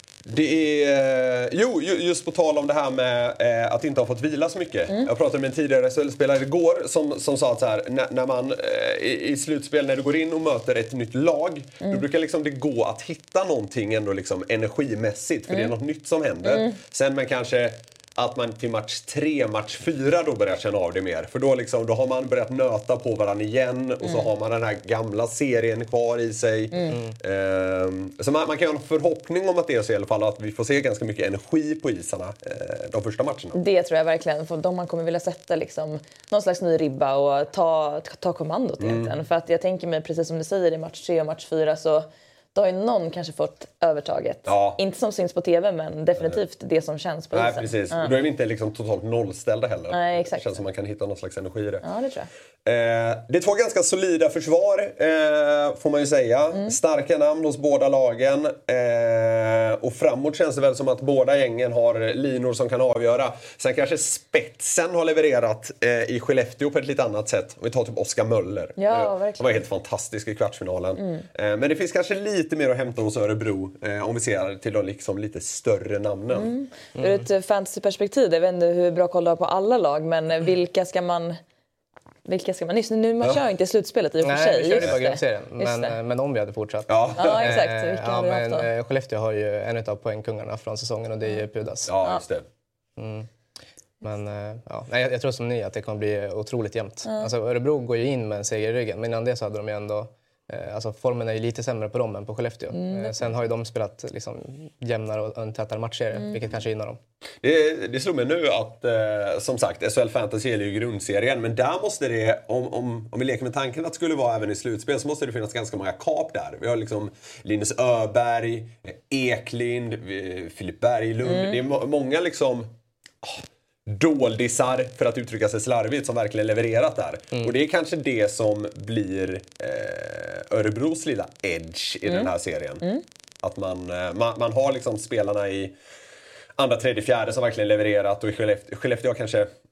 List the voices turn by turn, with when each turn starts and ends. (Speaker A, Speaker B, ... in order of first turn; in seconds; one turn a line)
Speaker A: 0.3-33.6
Speaker B: 16.4-16.7
Speaker B: 24.0-24.3
Speaker B: 33.5-48.1
Speaker A: 38.8-39.1
Speaker A: 44.5-44.8
Speaker A: 47.3-51.8
Speaker B: 49.9-50.5
Speaker B: 51.8-52.3
Speaker A: 52.6-76.5
Speaker B: 68.8-69.6
Speaker B: 71.0-71.2
Speaker B: 76.3-81.4
Speaker C: 77.0-77.2
Speaker B: 82.2-85.9
Speaker C: 84.2-91.9
Speaker A: 86.9-87.5
Speaker B: 87.2-88.7
Speaker A: 91.9-92.5
Speaker C: 93.0-93.3
Speaker C: 94.0-107.0
Speaker B: 97.0-97.3
Speaker B: 102.7-103.3
Speaker A: 107.4-122.7
Speaker B: 121.2-121.5
Speaker A: 123.2-132.8
Speaker A: 133.4-135.7
Speaker A: 136.6-139.5